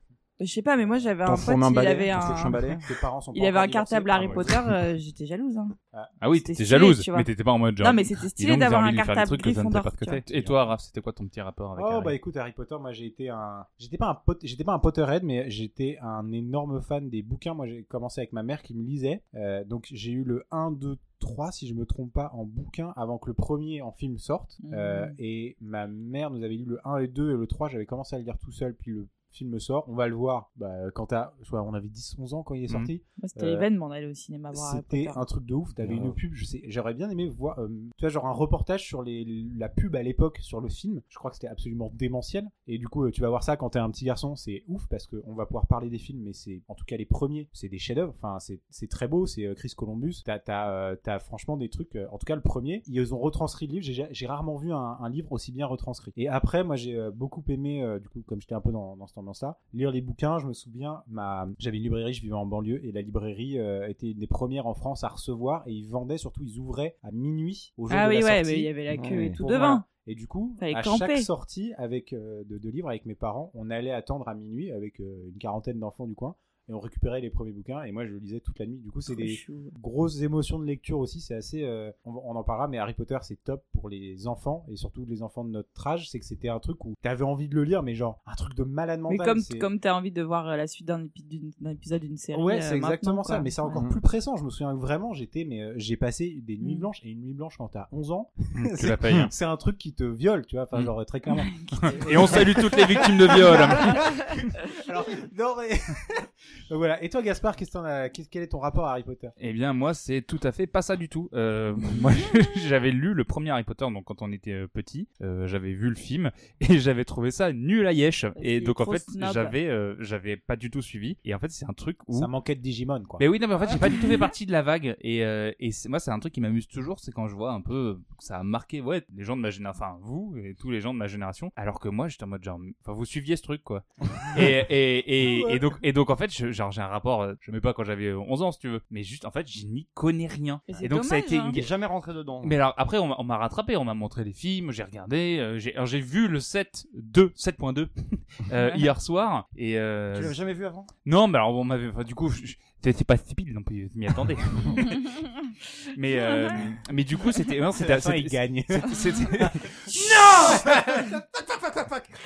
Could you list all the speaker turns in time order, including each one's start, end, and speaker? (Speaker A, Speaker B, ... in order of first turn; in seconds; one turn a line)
Speaker A: 0.4-2.6
Speaker B: 1.2-2.8
Speaker C: 2.7-4.5
Speaker A: 3.3-5.7
Speaker D: 6.2-12.1
Speaker A: 6.3-7.3
Speaker A: 7.8-10.2
Speaker C: 10.3-10.6
Speaker C: 11.8-33.7
Speaker A: 24.6-25.2
Speaker D: 32.7-32.9
Speaker A: 33.2-35.2
Speaker C: 34.5-89.7
Speaker B: 35.8-36.2
Speaker A: 67.9-69.8
Speaker B: 68.9-69.4
Speaker A: 70.6-71.3
Speaker A: 79.1-79.7
Speaker A: 89.1-93.8
Speaker C: 92.3-109.3
Speaker B: 93.7-94.0
Speaker A: 96.6-96.9
Speaker D: 98.5-99.3
Speaker A: 101.3-101.8
Speaker D: 101.8-104.5
Speaker B: 101.9-102.4
Speaker D: 109.4-122.3
Speaker A: 118.3-119.5
Speaker C: 122.1-123.2
Speaker D: 123.2-141.7
Speaker A: 123.8-124.2
Speaker C: 135.2-135.7
Speaker A: 140.7-141.5
Speaker B: 141.5-142.6
Speaker D: 142.4-150.4
Speaker A: 148.5-148.9
Speaker B: 150.1-150.9
Speaker D: 151.1-155.2
Speaker D: 155.9-159.8
Speaker A: 156.1-156.6
Speaker C: 157.7-159.4
Speaker B: 159.8-162.1
Speaker C: 160.5-161.1